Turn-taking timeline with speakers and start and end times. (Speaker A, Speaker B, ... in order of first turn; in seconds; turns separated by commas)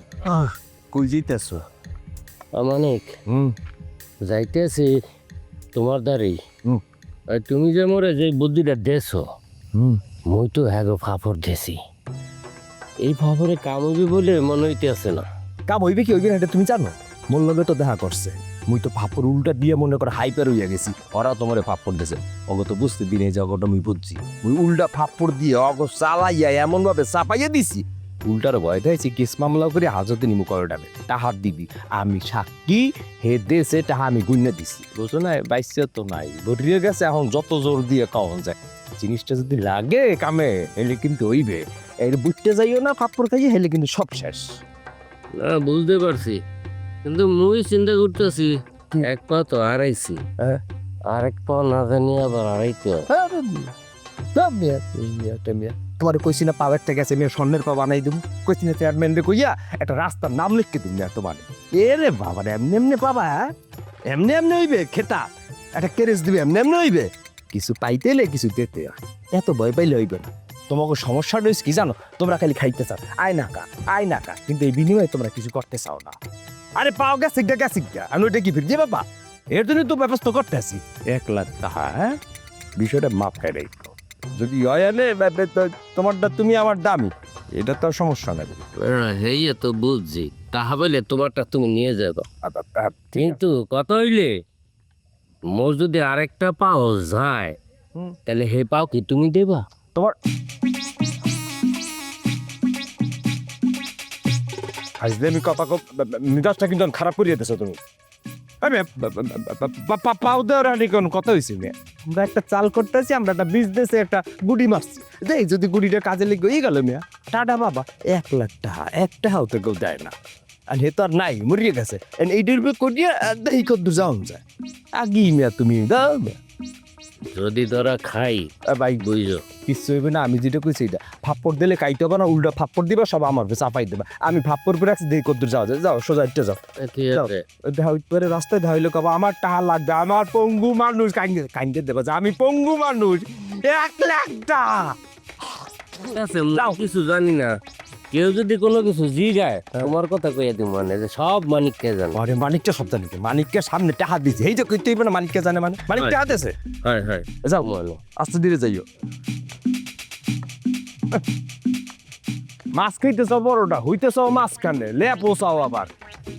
Speaker A: 0.2-1.6, Speaker B: 2.5-3.1, Speaker A: 3.3-3.5, Speaker B: 4.2-5.0, Speaker B: 5.7-6.4, Speaker B: 7.3-9.2, Speaker A: 9.7-10.0, Speaker B: 10.3-11.8, Speaker B: 13.0-15.2, Speaker A: 15.7-44.6, Speaker B: 45.4-46.4, Speaker B: 47.0-50.3, Speaker B: 51.1-53.1, Speaker A: 53.1-53.7, Speaker A: 54.3-63.5, Speaker A: 64.1-76.2, Speaker A: 76.8-82.2, Speaker A: 82.8-88.7, Speaker B: 88.8-92.2, Speaker A: 92.4-93.4, Speaker B: 93.1-94.3, Speaker B: 95.5-97.5, Speaker B: 98.3-99.6, Speaker A: 105.0-107.8, Speaker A: 108.6-120.1, Speaker A: 120.7-124.4, Speaker A: 124.9-126.4, Speaker B: 127.3-129.4, Speaker A: 128.7-129.0, Speaker A: 129.6-136.6, Speaker B: 136.8-137.4, Speaker A: 137.1-144.9, Speaker B: 146.1-147.6, Speaker A: 146.5-146.8, Speaker B: 148.1-152.2, Speaker A: 152.1-156.6, Speaker B: 155.9-156.2, Speaker B: 156.8-158.0, Speaker A: 157.4-158.8, Speaker A: 162.7-165.9